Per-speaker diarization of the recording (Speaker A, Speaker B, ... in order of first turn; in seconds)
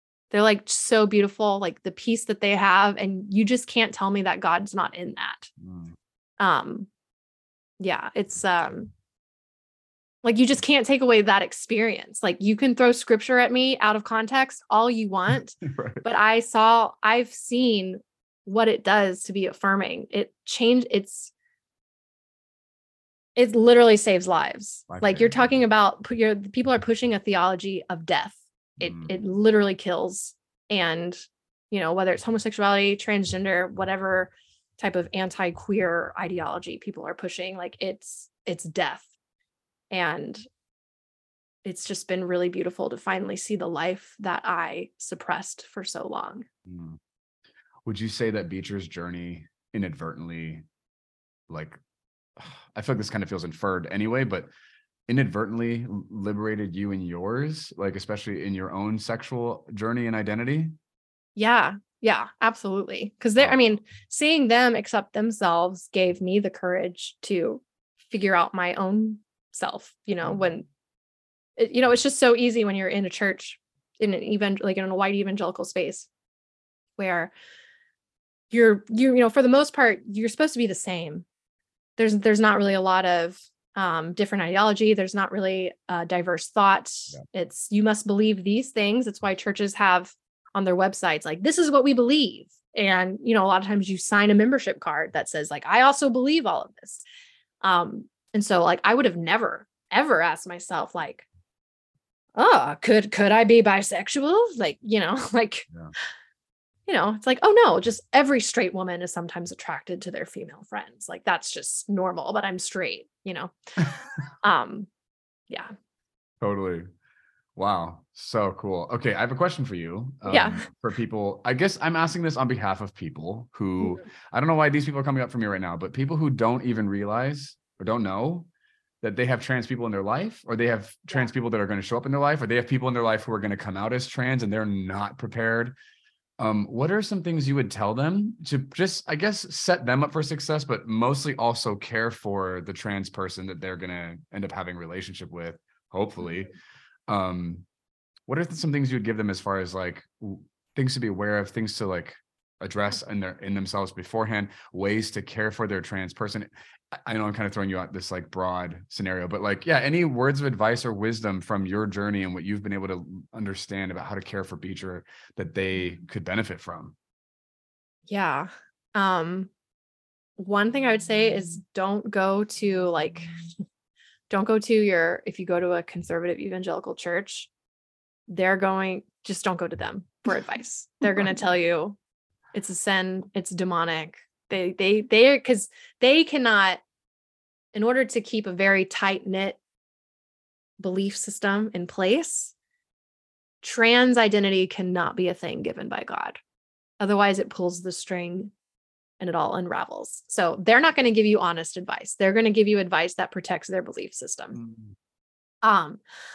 Speaker A: 0.3-5.5, 6.4-6.9, 7.8-8.9, 10.2-21.3, 23.4-39.1, 39.9-40.5, 41.6-46.5, 61.4-70.7, 71.6-76.1, 77.0-77.3, 78.5-81.3, 82.0-97.0, 97.6-101.3, 102.4-105.7, 106.9-113.5, 114.4-114.9, 120.3-120.7, 168.1-169.5, 170.4-173.3, 174.3-177.5, 178.3-182.0, 182.5-186.8, 187.7-189.6, 190.8-192.5, 193.6-196.4, 197.0-198.5, 199.2-204.6, 205.6-206.0
Speaker B: 5.6-6.0, 15.6-16.1, 24.9-25.4, 28.8-29.1, 46.7-47.0, 47.9-50.6, 51.5-51.8, 52.4-54.5, 55.1-60.7, 116.4-116.9, 117.6-128.5, 129.0-135.8, 136.4-146.5, 147.1-147.7, 148.3-166.9, 204.5-205.0